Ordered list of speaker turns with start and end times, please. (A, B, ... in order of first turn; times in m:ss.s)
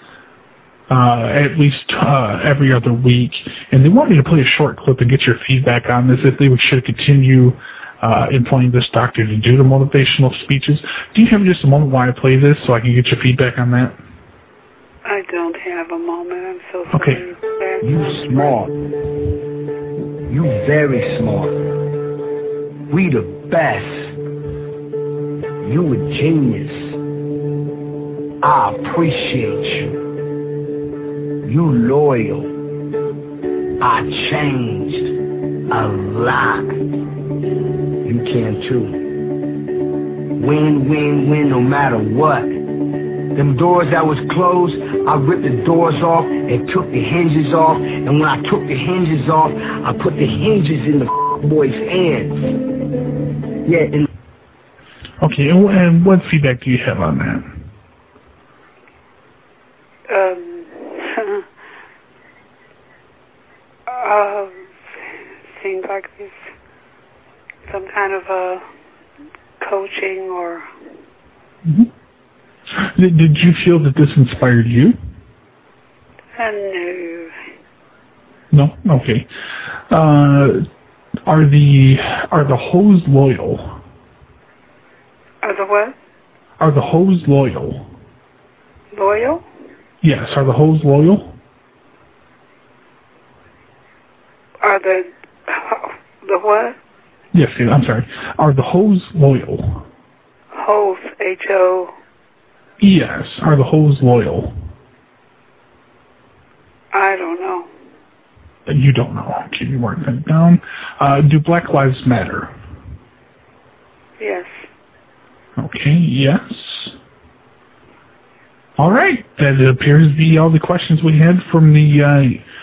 0:00.9-0:14.0 A
0:15.0-0:18.6 B
0:16.9-0:17.2 A
0:17.8-0:18.8 C
0:20.3-0:21.8 C
0:22.9-0:24.2 C
0:25.6-0:27.0 C
0:28.4-0:30.0 C
0:31.4-0:32.6 C
0:33.8-0:35.2 C
0:35.7-0:36.8 C
0:38.0-0:39.2 C
0:40.4-0:42.7 C
0:43.3-0:52.7 C
0:53.6-0:54.1 C
0:55.2-0:57.6 A
1:00.1-1:01.4 B
1:03.9-1:06.5 B
1:07.7-1:08.6 B
1:09.6-1:10.7 B
1:11.6-1:11.9 A
1:12.7-1:15.0 A
1:16.4-1:17.4 B
1:18.5-1:19.3 A
1:19.9-1:20.7 A
1:21.3-1:23.8 A
1:25.4-1:26.0 B
1:26.6-1:27.9 A
1:28.9-1:29.4 B
1:30.0-1:31.4 A
1:34.6-1:36.8 B
1:37.3-1:39.9 A
1:40.5-1:41.9 B
1:42.8-1:44.6 A
1:46.9-1:47.7 B
1:48.7-1:52.5 A
1:54.2-1:54.7 B
1:55.6-1:57.0 A
1:58.8-2:02.4 A